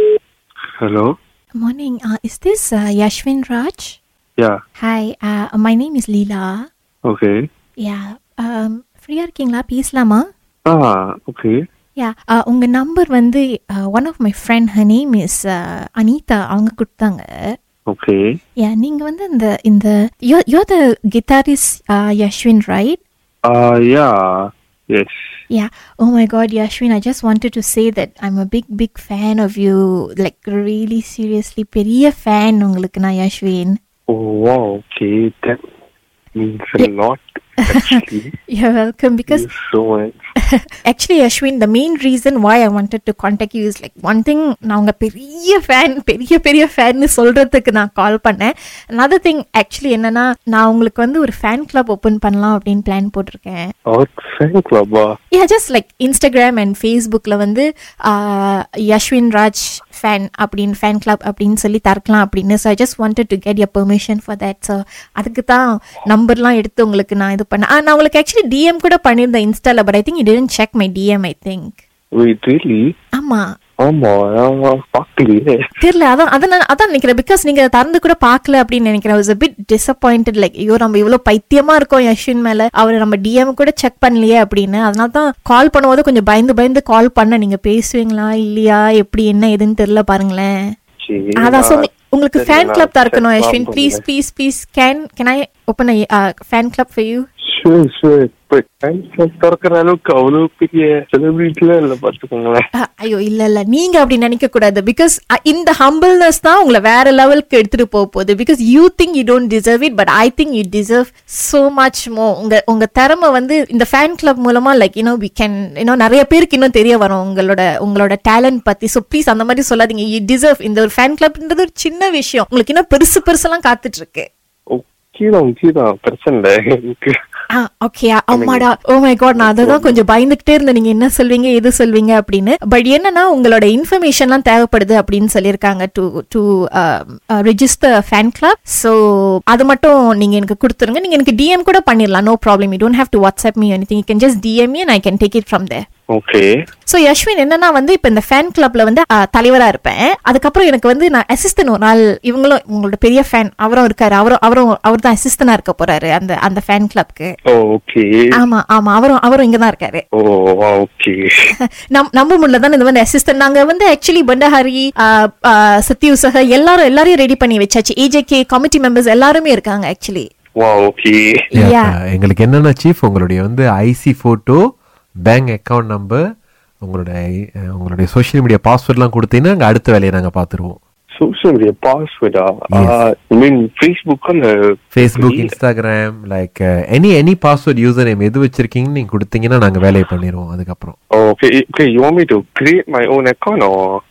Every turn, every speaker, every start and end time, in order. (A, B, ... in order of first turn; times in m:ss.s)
0:00.8-0:01.1 A
0:01.6-0:04.0 B
0:04.8-0:06.7 B
0:07.1-0:07.4 A
0:07.8-0:10.3 B
0:10.7-0:11.6 A
0:12.0-0:17.5 B
0:17.9-0:18.2 A
0:18.6-0:23.0 B
0:23.5-0:25.2 A
0:25.5-0:33.8 B
0:34.1-0:35.6 A
0:36.4-0:38.3 A
0:38.5-0:39.5 B
0:39.3-0:40.2 A
0:40.9-0:53.7 B
0:53.9-0:55.1 A
0:55.3-1:11.8 B
1:12.2-1:12.9 A
1:13.2-1:13.4 B
1:13.8-1:15.6 A
1:15.8-1:30.5 B
1:31.0-1:34.0 A
1:31.4-1:37.2 B
1:37.5-1:42.6 A
1:42.8-2:04.3 B
2:04.7-2:07.1 A
2:07.6-2:19.0 B
2:08.3-2:08.7 A
2:09.4-2:10.0 A
2:19.5-2:25.8 B
2:26.1-2:26.5 A
2:26.9-2:37.3 B
2:37.5-2:38.1 A
2:38.4-2:40.0 B
2:40.2-2:41.3 A
2:41.9-2:50.3 B
2:50.6-2:51.2 A
2:51.6-2:52.0 B
2:51.6-2:54.6 C
2:55.2-2:56.2 C
2:56.8-2:57.2 C
2:57.7-3:00.8 C
3:01.2-3:05.5 A
3:05.0-3:11.0 C
3:11.2-3:13.8 A